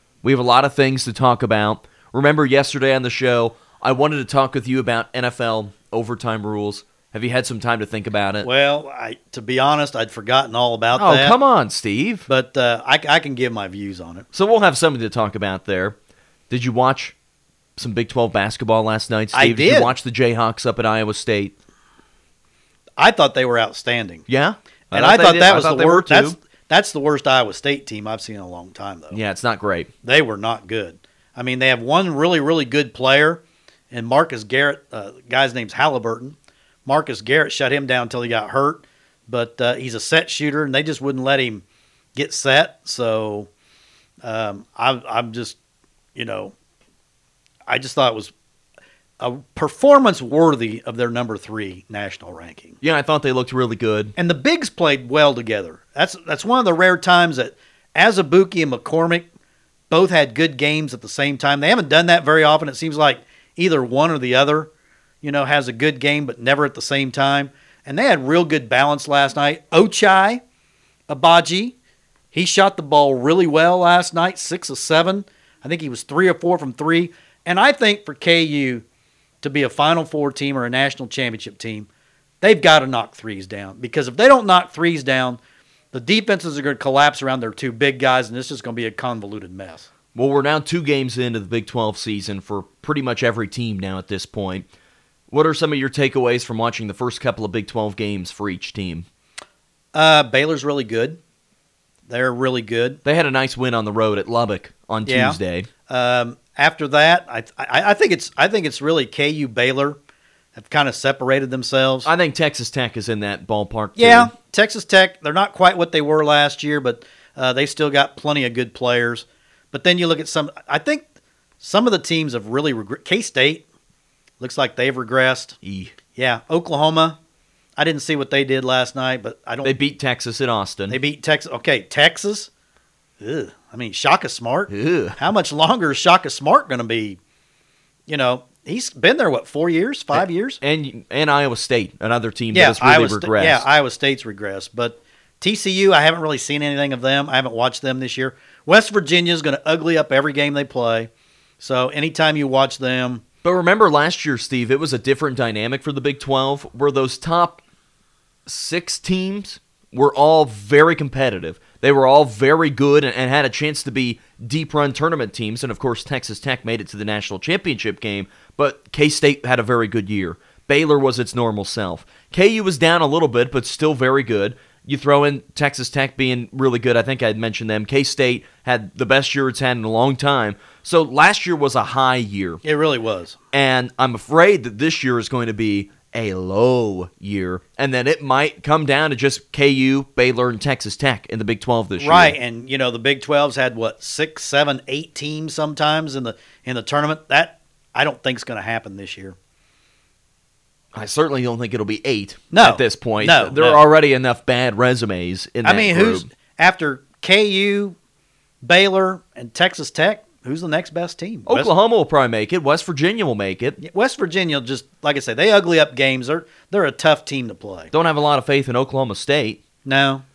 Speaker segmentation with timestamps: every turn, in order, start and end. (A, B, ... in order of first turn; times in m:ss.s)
0:00.2-0:08.5 A
0:08.4-0:11.4 B
0:11.0-0:12.3 A
0:12.3-0:14.3 B
0:14.3-0:15.9 A
0:16.5-0:17.1 A
0:17.8-0:21.5 A
0:19.3-0:19.9 B
0:23.0-0:24.2 B
0:24.3-0:26.4 A
0:24.9-0:29.2 B
0:29.1-0:29.9 A
0:30.0-0:41.6 B
0:42.1-0:43.5 B
0:44.2-0:45.6 B
0:46.1-0:46.5 B
0:47.7-0:48.3 B
0:49.2-0:52.8 B
0:52.8-0:54.1 A
0:54.2-0:59.3 B
0:59.9-1:04.7 B
1:05.2-1:10.4 B
1:11.1-1:11.8 B
1:12.3-1:18.8 B
1:19.4-1:21.9 B
1:22.4-1:25.4 B
1:25.9-1:29.9 B
1:30.1-1:34.6 A
1:35.3-1:39.0 A
1:39.9-1:41.2 B
1:42.1-1:43.0 B
1:43.0-1:45.7 A
1:45.0-1:50.0 B
1:50.6-1:52.1 B
1:52.0-1:54.3 A
1:54.0-2:01.0 B
2:01.6-2:03.6 B
2:04.4-2:05.6 B
2:05.6-2:05.9 A
2:06.1-2:07.2 B
2:07.8-2:09.7 B
2:09.6-2:11.0 A
2:10.9-2:12.5 B
2:13.2-2:17.2 B
2:14.7-2:15.2 A
2:18.1-2:20.6 B
2:20.1-2:23.6 A
2:22.5-2:33.2 B
2:33.4-2:37.6 A
2:38.4-3:02.6 A
3:02.6-3:03.4 B
3:03.5-3:12.4 A
3:12.0-3:19.4 B
3:20.9-3:26.3 A
3:22.5-3:23.8 B
3:25.6-3:28.0 B
3:28.6-3:31.7 B
3:31.5-3:33.8 A
3:33.8-3:37.9 B
3:37.9-3:39.6 A
3:39.8-3:40.2 B